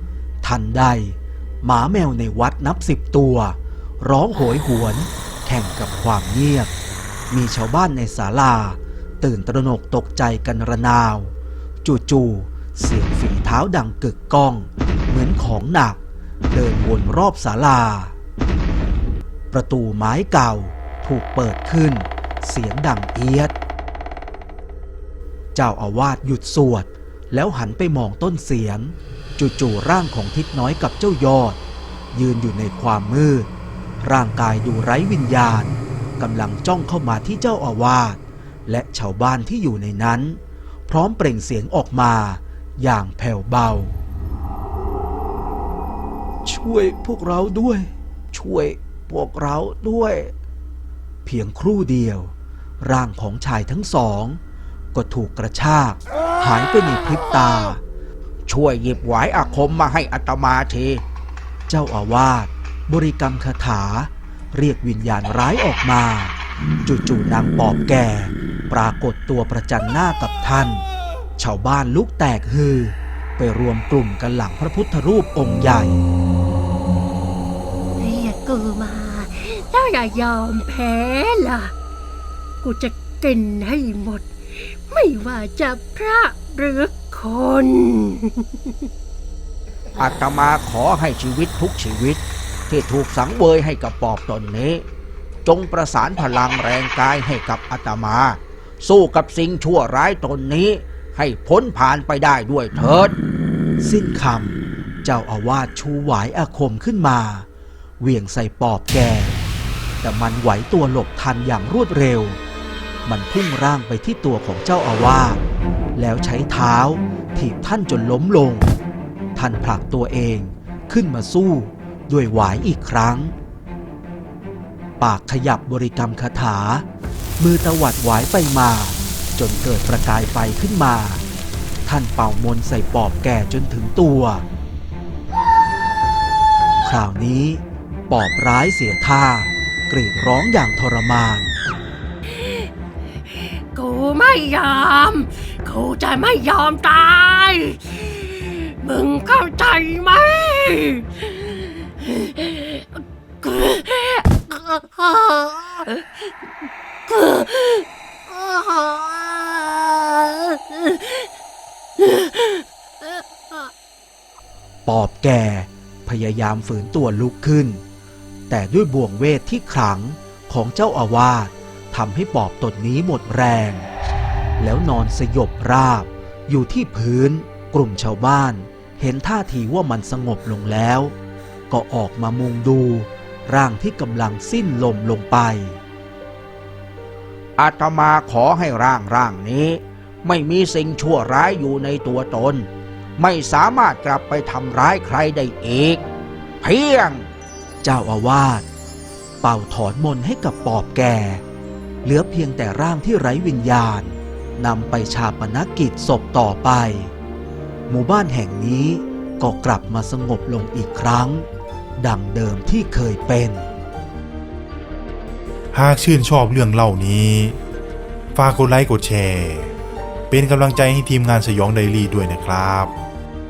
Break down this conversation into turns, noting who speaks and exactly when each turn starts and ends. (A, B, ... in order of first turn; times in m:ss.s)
0:00.4-0:06.7 A
0:07.3-0:16.0 A
0:16.5-0:18.1 A
0:19.5-0:23.5 A
0:25.5-0:31.6 A
0:32.1-0:33.5 A
0:34.0-0:44.0 A
0:46.4-0:50.3 A
0:51.2-0:54.4 A
0:54.9-0:57.8 A
0:58.5-1:01.0 B
1:01.7-1:10.8 A
1:11.4-1:16.0 A
1:18.0-1:21.7 C
1:22.6-1:28.7 C
1:30.0-1:34.8 B
1:35.4-1:43.1 B
1:43.8-1:47.5 A
1:48.0-1:49.4 A
1:50.0-1:52.4 A
1:53.0-1:55.4 A
1:56.0-1:58.7 A
1:59.3-2:03.3 A
2:05.0-2:06.8 A
2:07.4-2:11.2 A
2:11.8-2:14.4 A
2:16.8-2:21.6 A
2:22.3-2:22.7 C
2:23.2-2:36.3 C
2:37.1-2:41.3 C
2:42.0-2:43.7 C
2:44.8-2:47.8 A
2:48.5-2:53.9 A
2:54.6-3:01.1 A
3:01.7-3:05.8 A
3:07.6-3:16.0 B
3:16.6-3:17.2 B
3:17.8-3:18.6 A
3:19.4-3:21.4 A
3:22.0-3:27.1 A
3:27.9-3:33.7 A
3:35.7-3:37.6 D
3:38.3-3:39.7 D
3:40.3-3:42.9 D